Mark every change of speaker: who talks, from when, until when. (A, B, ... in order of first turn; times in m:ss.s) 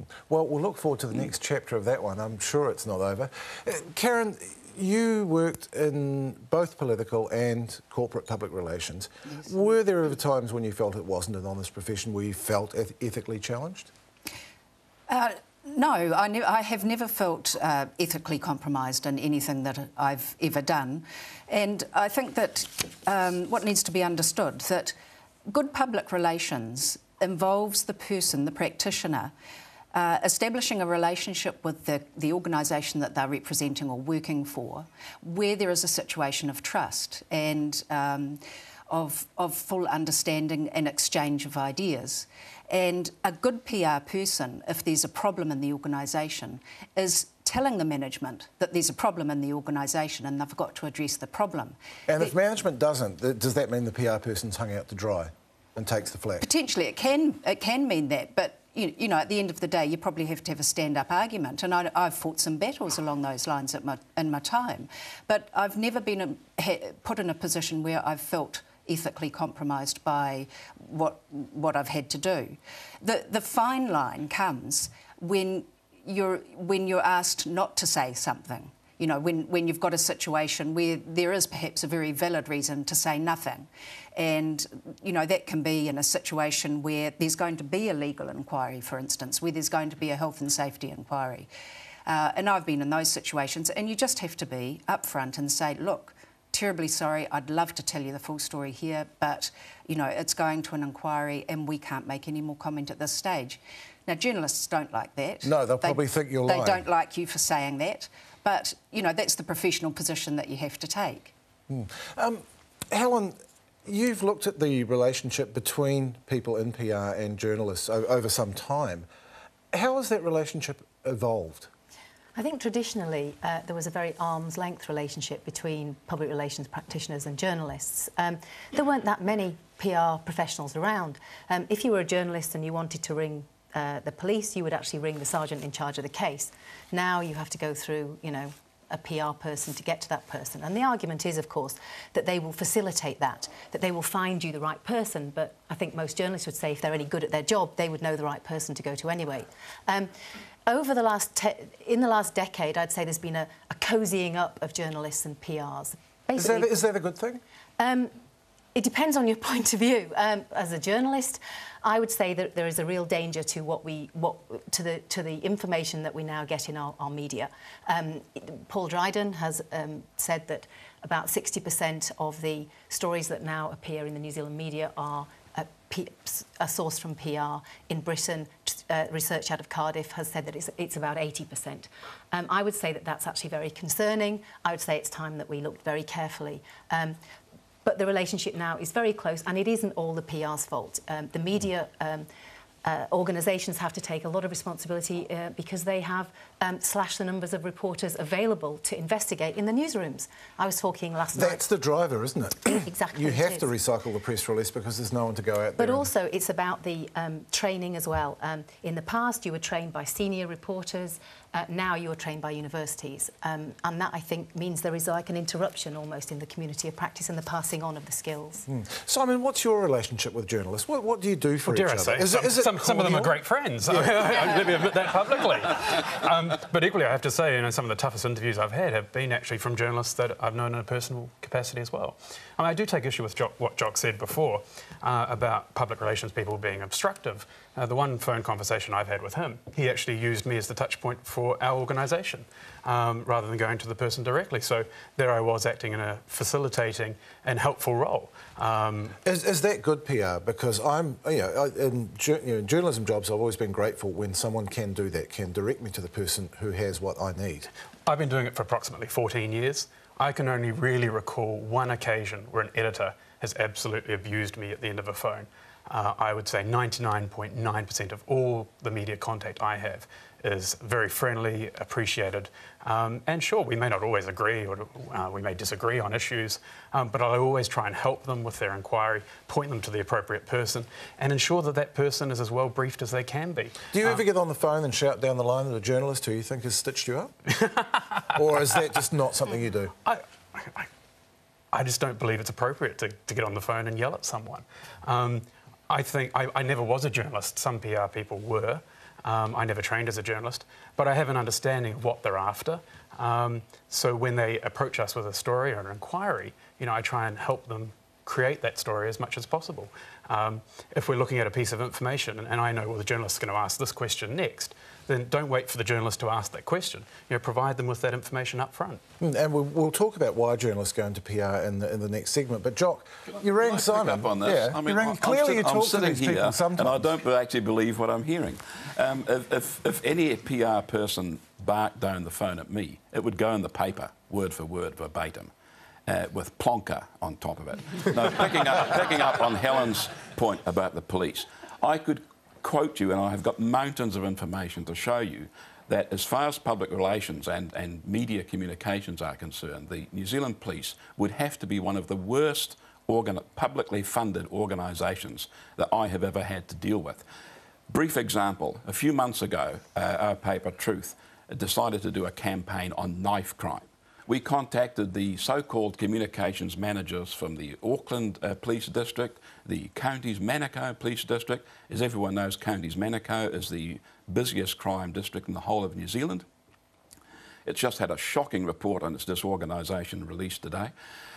0:00.2-0:13.9 A
0:15.1-0:21.0 B
0:21.5-0:24.9 B
0:25.5-0:29.3 B
0:30.0-0:38.4 B
0:38.9-0:42.2 B
0:42.7-0:51.7 B
0:52.1-0:56.5 A
0:56.5-1:12.5 B
1:13.0-1:23.6 B
1:24.2-1:31.4 B
1:32.1-1:43.6 B
1:44.1-1:45.4 B
1:45.4-1:46.9 A
1:46.5-1:51.3 B
1:51.7-1:59.0 A
1:59.7-2:01.7 A
2:02.3-2:30.1 C
2:30.6-2:36.8 C
2:36.4-2:37.4 A
2:37.8-2:38.1 C
2:38.7-3:07.2 C
3:07.8-3:12.3 C
3:12.8-3:21.6 C
3:21.3-3:26.1 A
3:22.6-3:23.7 C
3:25.8-3:38.7 C
3:38.7-3:44.1 A
3:41.6-4:09.1 D
4:09.2-4:17.7 A
4:18.0-4:44.2 D
4:43.9-4:47.4 A
4:47.6-4:48.2 D
4:48.3-4:49.9 A
4:50.0-4:50.9 D
4:51.7-5:19.0 D
5:19.2-5:27.1 A
5:23.5-5:35.5 E
5:36.1-5:57.2 E
5:57.9-6:16.4 E
6:17.6-6:20.9 E